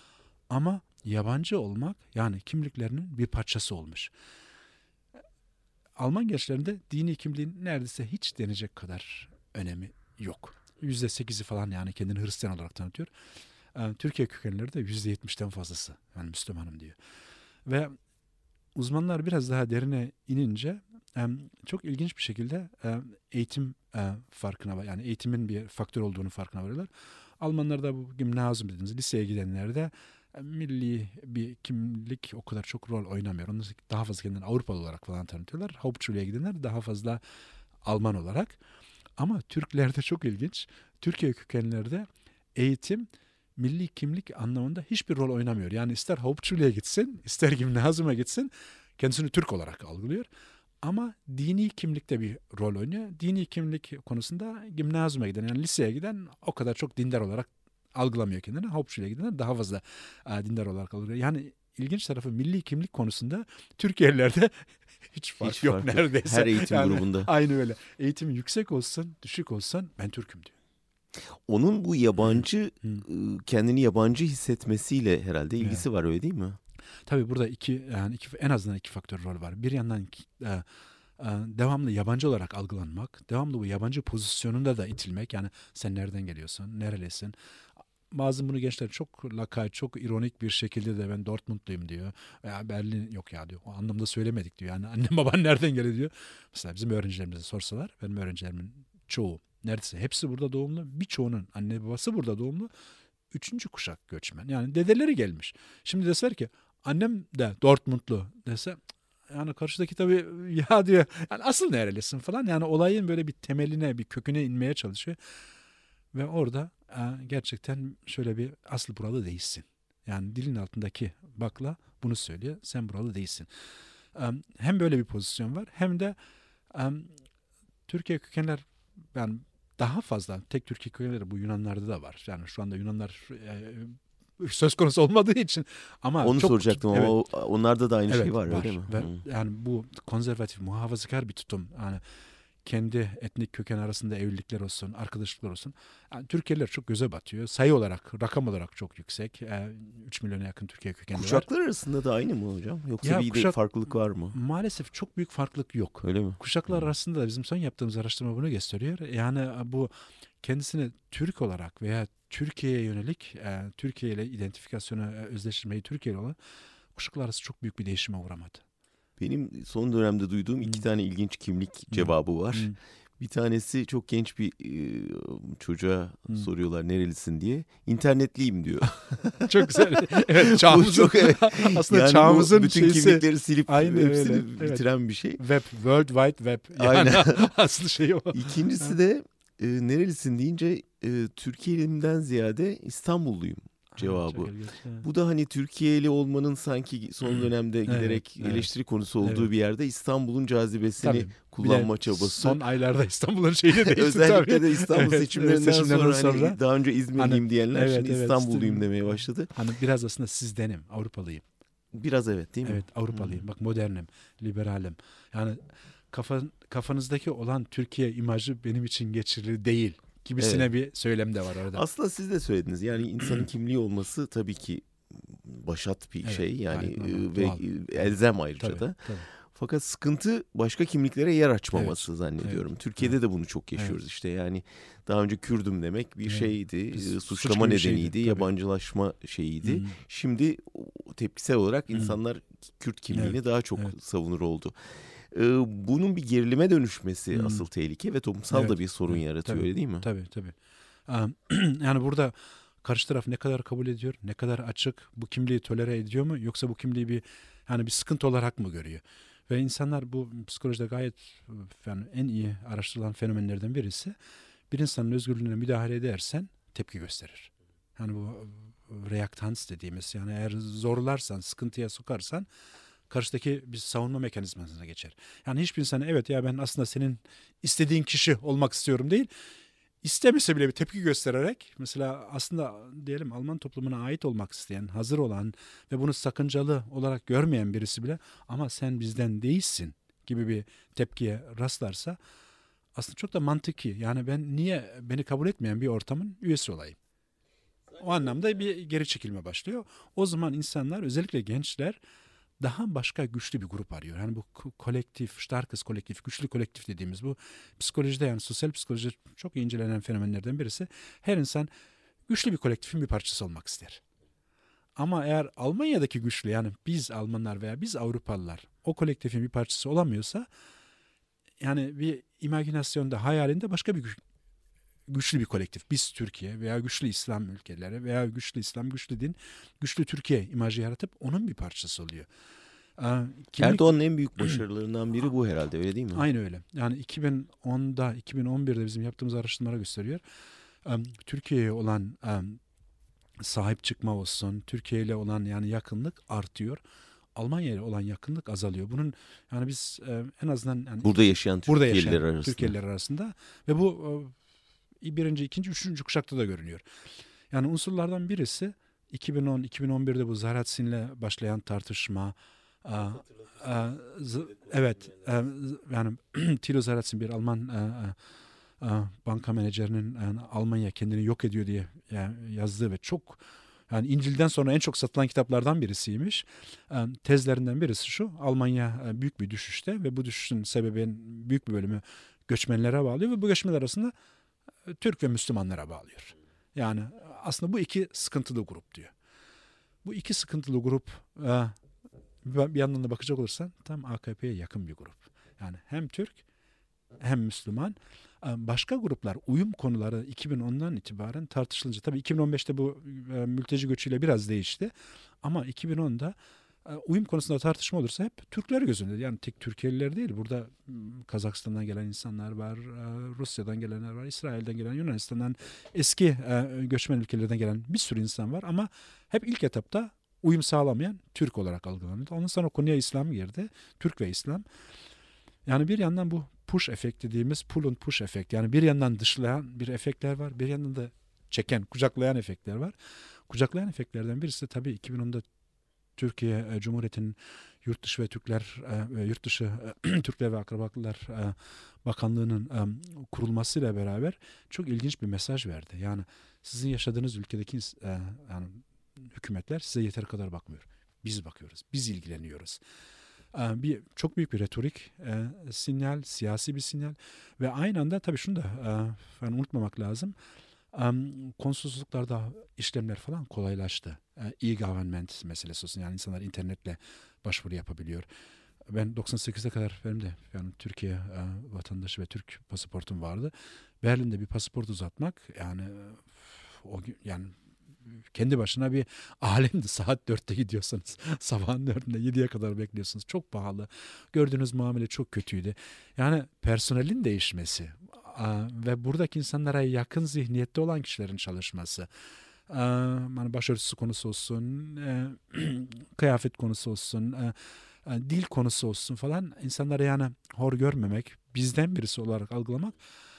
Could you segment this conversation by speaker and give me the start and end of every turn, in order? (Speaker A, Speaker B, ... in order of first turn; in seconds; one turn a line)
Speaker A: 0.5-4.1
Speaker A: 6.0-13.1
Speaker A: 13.7-17.0
Speaker A: 17.6-17.9
Speaker A: 18.7-37.2
Speaker A: 37.8-38.6
Speaker A: 39.2-50.3
Speaker A: 50.8-70.5
Speaker B: 65.4-67.3
Speaker B: 71.2-76.6
Speaker A: 72.3-73.0
Speaker A: 75.6-75.8
Speaker A: 77.0-87.3
Speaker A: 88.1-102.7
Speaker A: 103.3-115.2
Speaker A: 116.1-123.5
Speaker A: 124.1-126.2
Speaker A: 126.7-127.2
Speaker A: 127.9-137.2
Speaker B: 136.2-139.2
Speaker A: 138.1-142.0
Speaker A: 142.6-151.4
Speaker B: 151.1-154.4
Speaker A: 153.0-153.6
Speaker A: 154.3-166.4
Speaker B: 156.0-156.4
Speaker A: 166.9-168.6
Speaker B: 169.2-185.4
Speaker A: 171.9-172.8
Speaker A: 179.5-184.8
Speaker A: 185.4-188.9
Speaker B: 186.8-187.5
Speaker B: 188.3-194.5
Speaker A: 193.9-195.1
Speaker B: 195.0-202.6
Speaker A: 197.9-198.7
Speaker A: 199.2-199.5
Speaker A: 201.0-206.6
Speaker B: 203.7-209.5
Speaker A: 207.2-211.4
Speaker B: 211.9-213.4
Speaker A: 212.6-215.6
Speaker A: 216.1-221.8
Speaker B: 220.4-220.7
Speaker B: 221.7-250.1
Speaker A: 223.2-223.5
Speaker A: 226.2-229.3
Speaker A: 231.7-233.1
Speaker A: 236.3-238.5
Speaker A: 239.6-239.9
Speaker A: 243.1-243.9
Speaker A: 247.3-247.7
Speaker A: 248.5-250.6
Speaker A: 251.1-264.1
Speaker A: 264.7-272.5
Speaker A: 273.1-279.3
Speaker A: 280.0-292.2
Speaker A: 292.9-297.0
Speaker A: 297.9-302.0
Speaker A: 302.6-311.7
Speaker A: 312.3-314.0
Speaker A: 314.9-320.5
Speaker A: 321.6-324.2
Speaker A: 325.1-332.3
Speaker A: 333.0-333.9
Speaker B: 333.6-336.2
Speaker A: 336.1-340.2
Speaker A: 340.8-342.6
Speaker A: 343.4-346.8
Speaker A: 347.3-354.4
Speaker B: 351.0-352.7
Speaker A: 355.0-356.8
Speaker A: 357.5-368.2
Speaker A: 368.8-384.1
Speaker A: 384.8-389.1
Speaker A: 390.0-391.8
Speaker A: 392.4-396.4
Speaker A: 397.2-424.6
Speaker A: 425.6-432.9
Speaker A: 433.5-435.4
Speaker A: 436.2-452.8
Speaker A: 453.5-460.3
Speaker A: 460.9-468.3
Speaker A: 468.9-492.1
Speaker A: 492.7-503.0